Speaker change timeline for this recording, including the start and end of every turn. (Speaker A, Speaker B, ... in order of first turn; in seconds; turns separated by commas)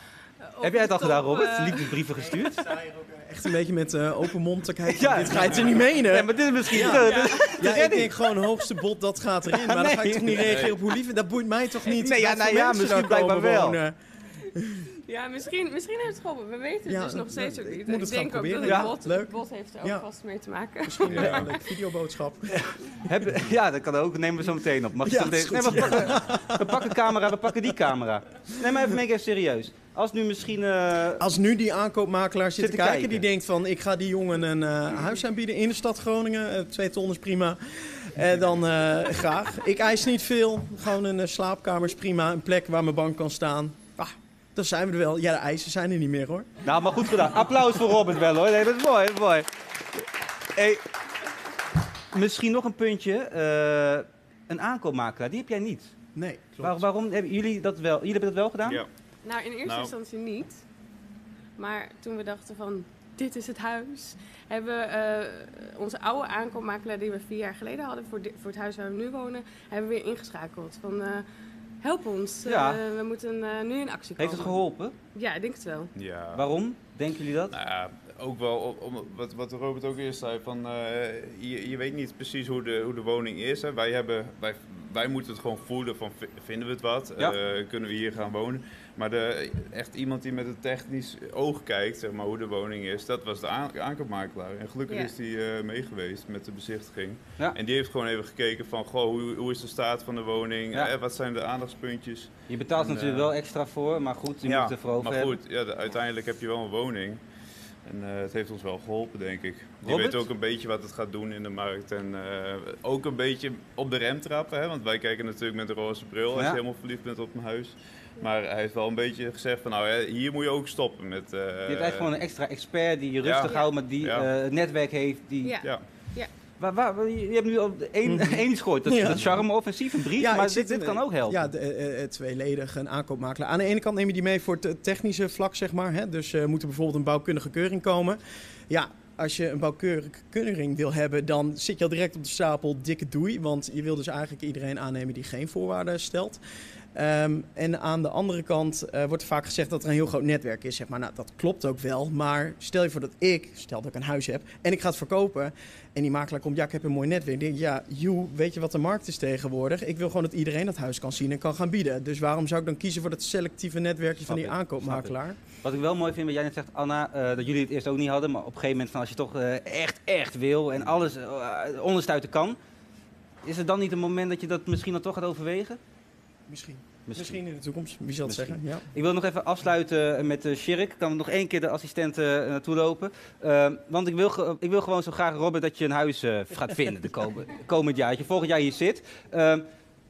Speaker A: 0.4-2.0, Speaker B: 0.6-2.8, Speaker C: 2.6-13.9, Speaker B: 4.9-8.4, Speaker A: 6.9-7.6, Speaker B: 9.5-10.9, Speaker B: 11.9-13.8, Speaker C: 14.6-14.8, Speaker A: 15.1-21.6, Speaker C: 16.9-20.0, Speaker B: 18.6-18.9, Speaker C: 20.9-22.7, Speaker D: 21.1-21.5, Speaker B: 23.1-31.2, Speaker C: 25.0-27.2, Speaker C: 31.2-46.5, Speaker B: 32.6-33.2, Speaker B: 46.6-49.5, Speaker B: 50.5-50.8, Speaker B: 52.1-55.9, Speaker C: 56.1-56.8, Speaker B: 56.6-58.8, Speaker A: 59.2-60.6, Speaker D: 59.6-59.9, Speaker A: 61.6-71.2, Speaker A: 71.8-74.6, Speaker B: 72.5-72.8, Speaker B: 74.2-75.0, Speaker A: 75.2-75.9, Speaker D: 76.0-76.5, Speaker B: 76.3-77.5, Speaker D: 77.5-103.3, Speaker B: 102.5-105.4, Speaker D: 104.4-107.2, Speaker D: 107.8-122.1, Speaker B: 109.8-110.3, Speaker B: 116.3-116.6, Speaker B: 121.7-125.5, Speaker D: 123.2-124.3, Speaker A: 125.4-126.3, Speaker B: 126.6-131.5, Speaker C: 128.1-146.4, Speaker C: 146.9-165.4, Speaker B: 164.3-172.6, Speaker B: 173.4-175.8, Speaker C: 176.5-178.8, Speaker B: 177.1-177.4, Speaker B: 178.3-189.6